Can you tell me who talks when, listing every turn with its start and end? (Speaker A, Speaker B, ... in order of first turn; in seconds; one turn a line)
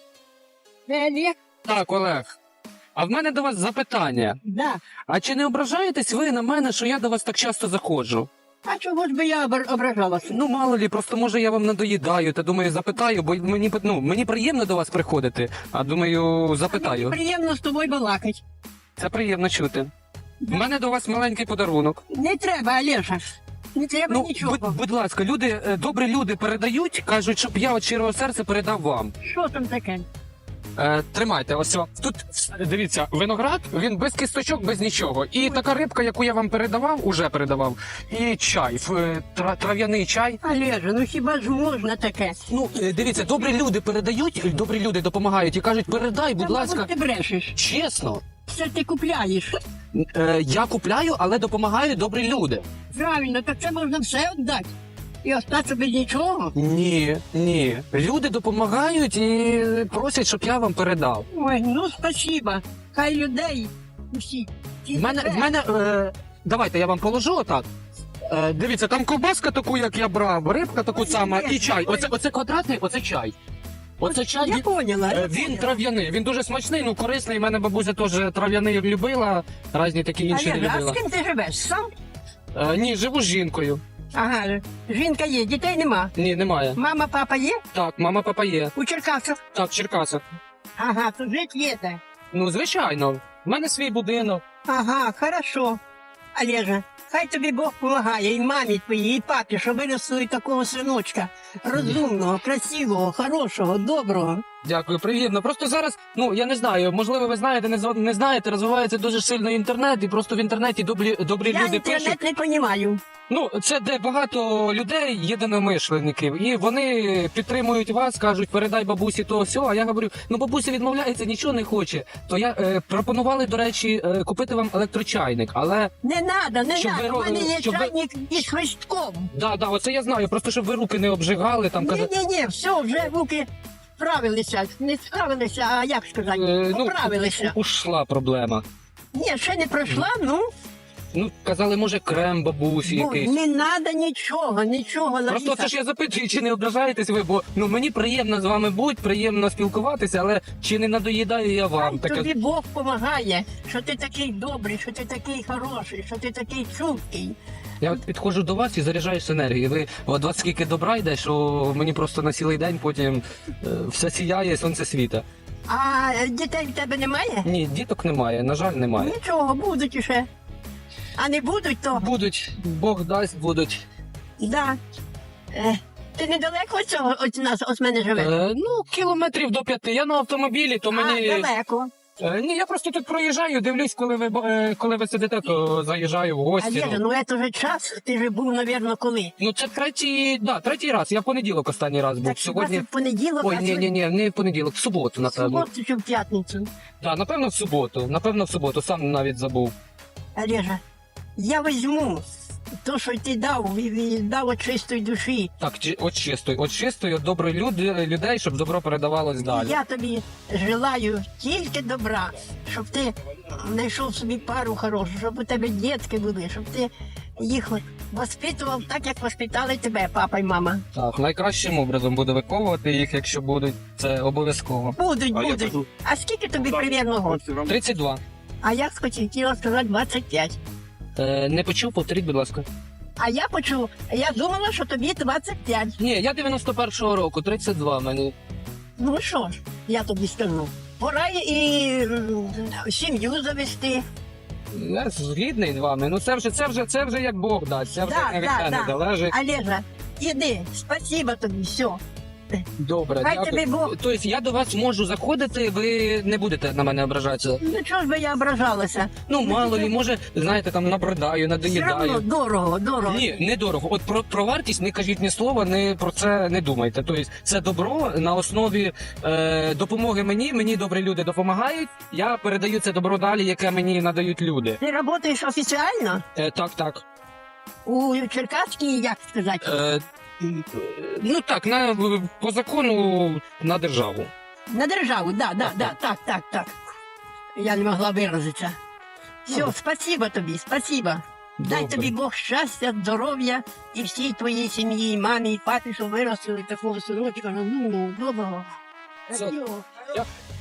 Speaker A: 0.9-1.3
Speaker B: 1.6-2.4
Speaker B: 3.0-4.4
Speaker A: 4.4-4.8
Speaker B: 5.1-8.3
Speaker A: 8.6-10.4
Speaker B: 10.3-17.1
Speaker A: 16.6-18.4
Speaker B: 19.0-19.9
Speaker B: 20.5-22.0
Speaker A: 22.1-23.2
Speaker A: 23.7-24.8
Speaker B: 24.1-29.1
Speaker A: 29.2-30.1
Speaker B: 30.8-40.4
Speaker A: 40.4-42.4
Speaker B: 42.5-46.9
Speaker A: 46.4-47.5
Speaker B: 47.5-48.2
Speaker A: 48.5-49.6
Speaker B: 49.9-52.6
Speaker A: 52.9-56.5
Speaker B: 56.5-61.2
Speaker A: 61.3-65.5
Speaker B: 64.9-67.7
Speaker B: 68.3-73.3
Speaker A: 70.9-72.1
Speaker B: 74.0-81.0
Speaker A: 74.0-75.8
Speaker A: 80.3-81.9
Speaker B: 82.5-83.8
Speaker A: 84.1-86.1
Speaker B: 86.1-86.8
Speaker A: 86.8-87.6
Speaker B: 87.7-88.7
Speaker A: 88.8-89.4
Speaker B: 89.5-90.2
Speaker A: 90.8-92.0
Speaker B: 92.3-94.4
Speaker A: 94.7-95.8
Speaker A: 96.3-104.4
Speaker B: 104.6-112.2
Speaker A: 111.4-113.0
Speaker B: 113.3-125.9
Speaker A: 126.0-129.3
Speaker B: 126.7-127.9
Speaker B: 129.3-132.1
Speaker A: 131.8-133.5
Speaker A: 134.0-137.6
Speaker B: 136.3-138.6
Speaker A: 139.1-140.4
Speaker B: 141.1-143.3
Speaker A: 142.8-145.7
Speaker B: 145.3-152.3
Speaker A: 151.8-157.3
Speaker B: 157.8-165.2
Speaker A: 165.7-167.5
Speaker B: 167.4-169.1
Speaker A: 168.9-170.3
Speaker A: 171.2-172.1
Speaker B: 171.9-173.8
Speaker A: 174.4-174.8
Speaker A: 175.5-178.3
Speaker B: 178.2-181.5
Speaker A: 180.9-181.9
Speaker B: 182.2-187.0
Speaker A: 186.6-189.3
Speaker B: 189.4-192.8
Speaker A: 192.2-193.9
Speaker B: 193.4-195.6
Speaker A: 195.2-196.7
Speaker B: 197.0-199.7
Speaker A: 200.3-200.8
Speaker A: 201.4-202.3
Speaker A: 202.8-205.5
Speaker B: 205.6-209.8
Speaker A: 209.4-220.8
Speaker B: 220.9-224.9
Speaker A: 224.9-227.5
Speaker B: 227.6-228.2
Speaker A: 228.6-230.6
Speaker B: 231.2-232.7
Speaker A: 233.2-236.0
Speaker B: 236.0-238.3
Speaker A: 239.0-244.0
Speaker B: 244.7-249.3
Speaker A: 248.0-252.0
Speaker B: 252.8-257.6
Speaker A: 253.2-253.9
Speaker A: 257.6-259.9
Speaker B: 259.3-262.2
Speaker A: 261.6-263.4
Speaker B: 263.1-274.8
Speaker A: 274.8-276.2
Speaker B: 276.3-277.0
Speaker A: 277.8-279.7
Speaker B: 279.6-284.3
Speaker A: 284.7-286.7
Speaker B: 285.6-285.9
Speaker A: 287.6-288.8
Speaker A: 289.4-298.6
Speaker B: 291.6-292.1
Speaker A: 299.3-300.1